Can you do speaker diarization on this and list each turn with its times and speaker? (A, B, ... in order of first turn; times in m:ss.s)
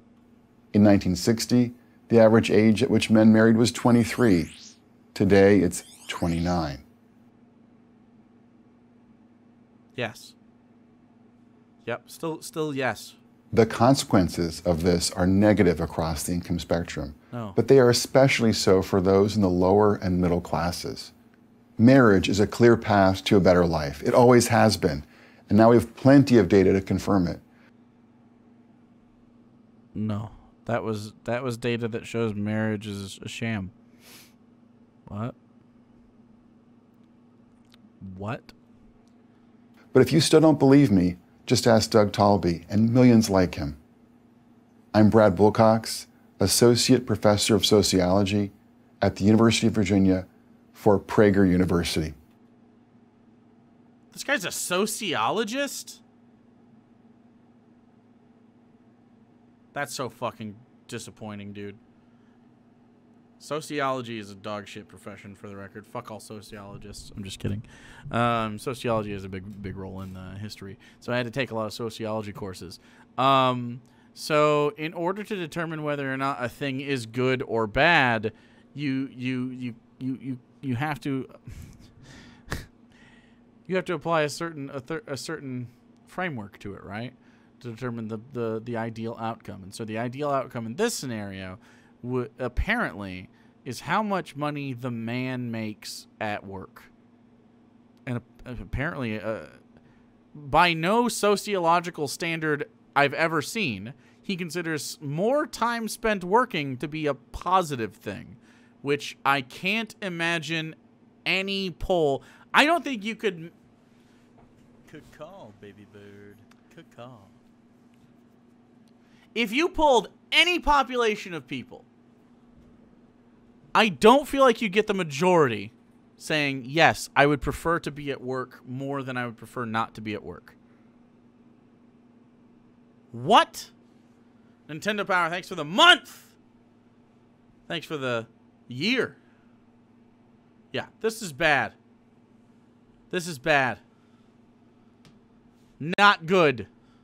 0:00.7-0:04.5 A
0:05.1-0:06.8 A
0:09.9-0:10.3 B
0:11.8-0:13.2 B
0:13.5-0:21.1 A
0:17.3-0:17.6 B
0:21.8-0:27.4 A
0:29.9-0:33.7 B
0:35.1-0:35.4 B
0:38.0-0:38.5 B
0:39.9-0:43.8 A
0:44.9-0:52.1 A
0:54.1-0:56.0 B
0:59.7-1:01.8 B
1:03.4-1:21.7 B
1:23.7-1:36.9 B
1:38.0-1:39.6 B
1:40.3-1:53.5 B
1:54.9-1:57.3 B
1:59.3-2:01.9 B
2:03.7-2:10.6 B
2:13.1-2:13.7 B
2:14.7-2:16.4 B
2:17.7-2:19.2 B
2:20.7-2:21.8 B
2:23.1-2:23.8 B
2:25.8-2:26.7 B